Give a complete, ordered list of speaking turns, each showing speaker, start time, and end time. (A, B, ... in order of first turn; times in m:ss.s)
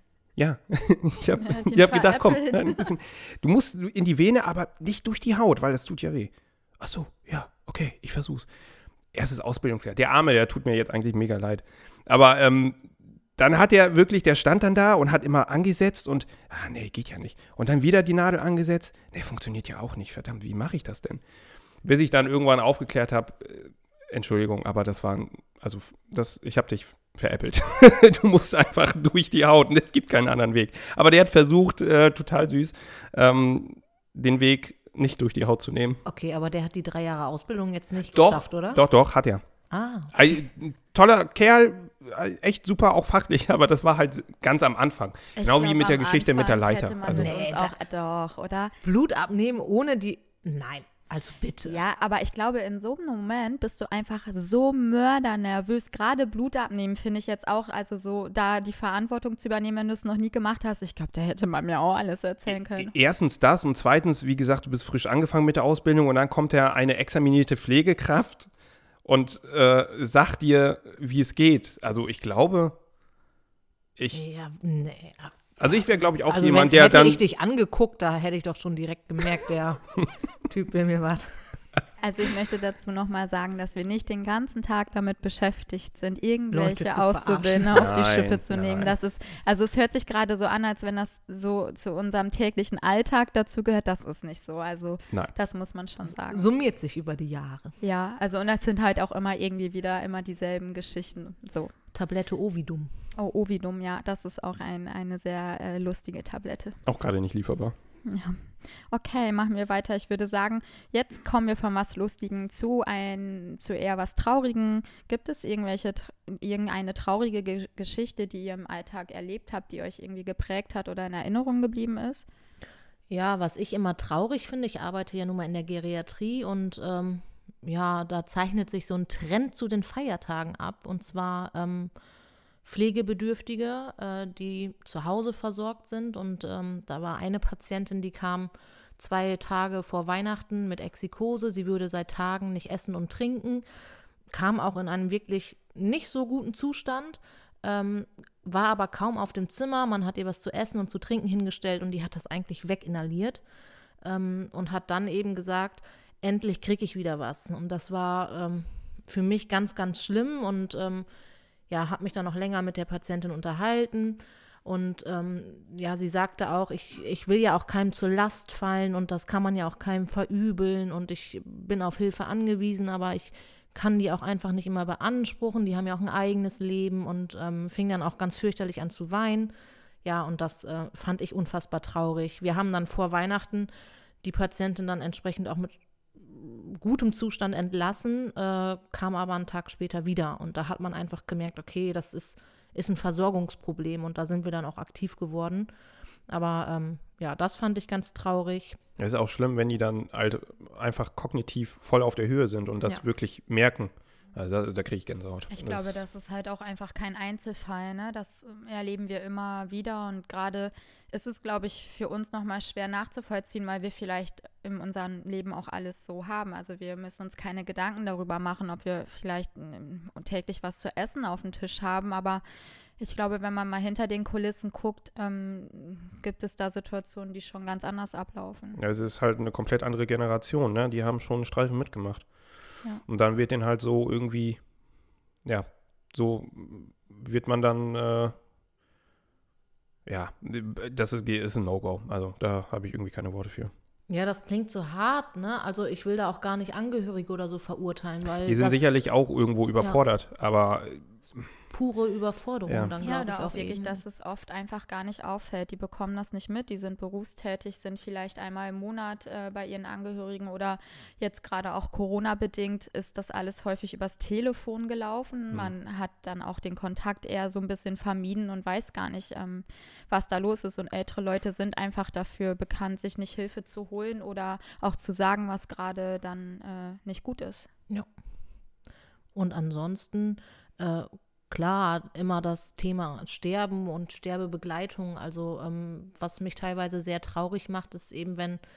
0:00.4-0:08.5 A
0:01.4-0:02.9 B
0:09.1-0:21.2 A
0:21.8-0:36.0 A
0:36.0-0:38.8 C
0:38.1-0:39.4 A
0:39.7-0:40.1 C
0:40.1-0:47.4 A
0:45.4-0:48.8 B
0:47.1-0:47.7 C
0:48.8-0:51.8 C
0:51.6-1:02.9 B
1:02.8-1:08.5 A
1:09.0-1:12.8 A
1:14.0-1:14.2 A
1:14.1-1:21.3 C
1:15.6-1:17.2 A
1:22.0-1:36.5 B
1:26.5-1:27.9 C
1:27.7-1:28.9 A
1:36.2-1:37.7 C
1:37.8-1:41.7 B
1:41.9-1:43.0 C
1:43.2-1:46.8 B
1:46.8-1:47.7 A
1:48.0-2:02.3 B
2:03.1-2:11.9 C
2:12.6-2:23.6 C
2:24.3-2:33.4 C
2:34.0-2:41.1 C
2:41.7-2:59.5 C
3:00.0-3:03.7 C
3:04.2-3:15.7 C
3:16.3-3:18.8 C
3:19.0-3:26.0 A
3:25.5-3:42.4 B
3:43.0-3:48.8 B
3:48.8-3:52.2 A
3:53.1-3:54.6 A
3:55.4-3:58.4 A
4:00.0-4:03.7 A
4:04.1-4:09.0 C
4:08.4-4:11.4 A
4:11.7-4:14.0 C
4:12.7-4:12.9 A
4:13.0-4:37.7 B
4:39.3-4:48.6 C